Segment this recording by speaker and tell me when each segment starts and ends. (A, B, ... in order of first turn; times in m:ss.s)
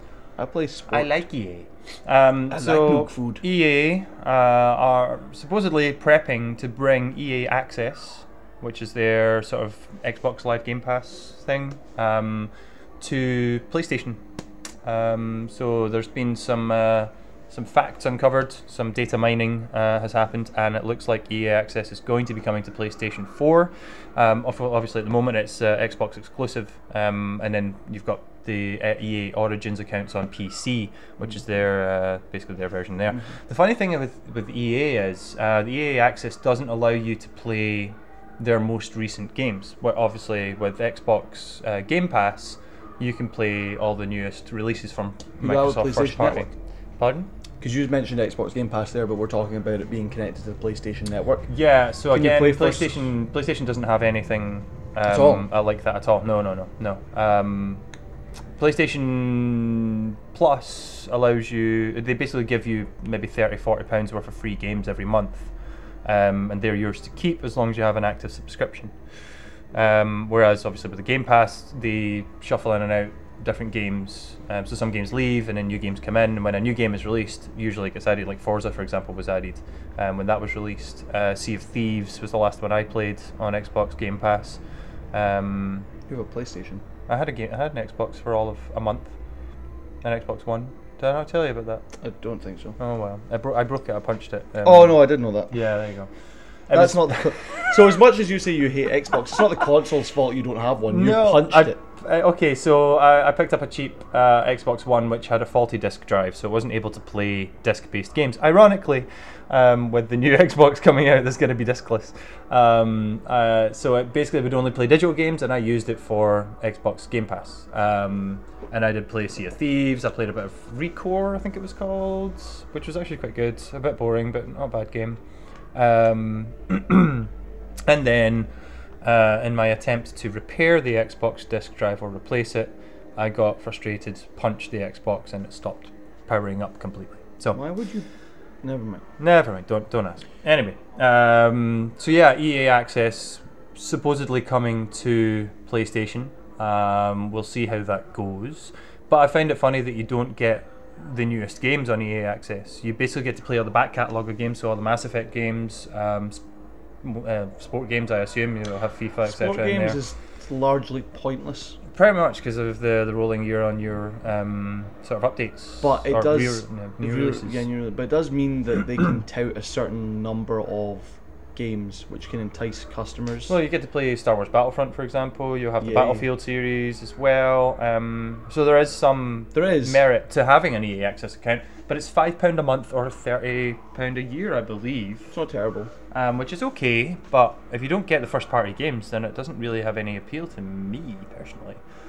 0:00.4-0:01.1 A
0:00.9-0:14.2 B
0:02.5-0:03.4 A
0:14.8-0:47.3 B
0:45.4-0:46.5 A
0:47.6-0:51.5 A
0:51.5-0:57.8 B
0:52.1-0:53.1 A
0:55.1-0:55.4 A
0:58.6-1:05.5 B
1:06.0-1:08.9 B
1:09.7-1:24.6 B
1:25.1-1:25.9 B
1:26.1-1:26.8 A
1:27.1-1:29.1 B
1:30.0-1:31.8 B
1:32.0-1:32.8 A
1:32.8-1:36.1 B
1:34.6-1:35.5 A
1:36.7-1:37.7 B
1:36.7-1:41.8 A
1:40.9-2:05.2 B
2:05.7-2:07.3 B
2:07.9-2:08.5 B
2:09.0-2:17.6 B
2:17.5-2:18.1 A
2:18.6-2:19.0 A
2:19.2-2:36.4 B
2:37.0-2:40.0 B
2:39.2-2:41.8 A
2:41.9-2:47.7 B
2:45.8-2:53.6 A
2:53.5-3:05.3 B
2:55.8-2:56.3 A
2:59.5-3:00.0 A
3:05.3-3:05.9 A
3:06.1-3:11.8 B